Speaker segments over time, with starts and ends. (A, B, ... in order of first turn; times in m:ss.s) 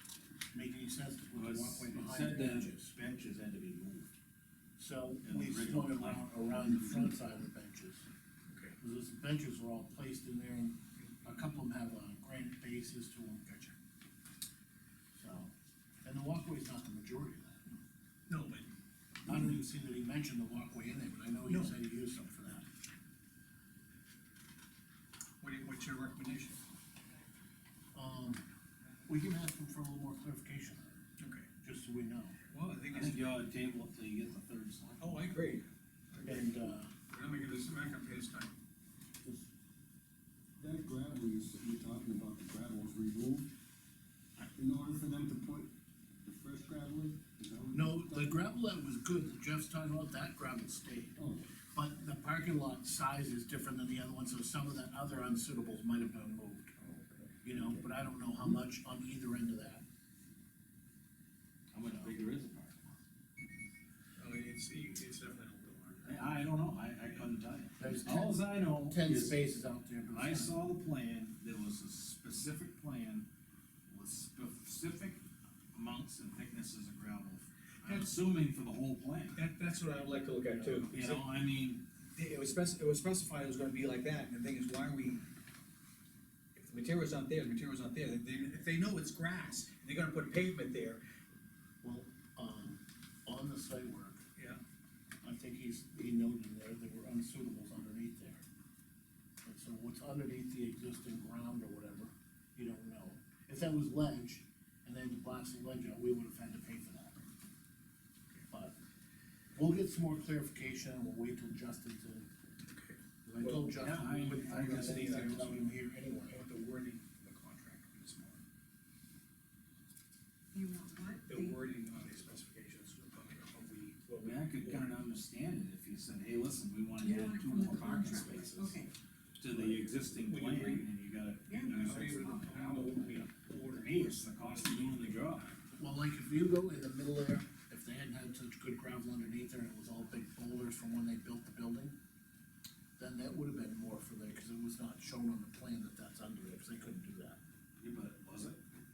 0:00.5-0:02.9 A
0:01.4-0:04.1 B
0:04.8-0:08.0 A
0:05.2-0:07.1 B
0:08.5-0:08.8 C
0:08.8-0:13.5 A
0:11.0-0:11.3 C
0:13.4-0:13.7 C
0:15.2-0:15.5 A
0:16.0-0:17.6 A
0:18.3-0:18.7 C
0:19.2-0:22.7 A
0:21.5-0:21.8 C
0:25.4-0:26.6 C
0:27.9-0:28.5 A
0:29.1-0:30.9 A
0:31.2-0:31.5 C
0:31.6-0:32.4 A
0:32.5-0:33.4 C
0:32.9-0:35.6 B
0:35.0-0:36.5 C
0:36.2-0:36.9 A
0:37.1-0:38.6 C
0:39.2-0:39.5 D
0:40.6-0:43.5 D
0:44.4-0:45.7 D
0:46.2-0:48.5 D
0:47.7-0:51.2 A
0:51.2-0:51.5 D
0:51.7-0:56.7 A
0:56.8-0:57.6 D
0:57.4-0:59.8 A
1:01.7-1:03.0 B
1:04.2-1:06.3 C
1:06.1-1:09.4 B
1:07.8-1:10.6 A
1:10.1-1:13.3 B
1:13.9-1:15.2 B
1:15.7-1:19.4 B
1:17.8-1:18.1 C
1:19.3-1:21.3 C
1:20.5-1:20.9 A
1:20.9-1:21.8 B
1:22.1-1:25.2 C
1:26.6-1:31.0 C
1:31.8-1:34.2 A
1:34.4-1:34.6 C
1:35.2-1:38.4 A
1:39.4-1:47.2 A
1:48.5-1:48.8 A
1:49.6-1:52.3 A
1:52.7-1:58.4 C
1:53.3-1:56.4 A
1:53.8-1:55.4 B
2:00.5-2:01.6 E
2:01.3-2:05.0 C
2:04.2-2:08.8 B
2:07.0-2:08.9 E
2:09.4-2:15.6 B
2:10.1-2:10.9 C
2:11.5-2:12.4 E
2:11.6-2:15.4 C
2:15.8-2:22.0 A
2:23.0-2:27.4 A
2:27.8-2:28.6 B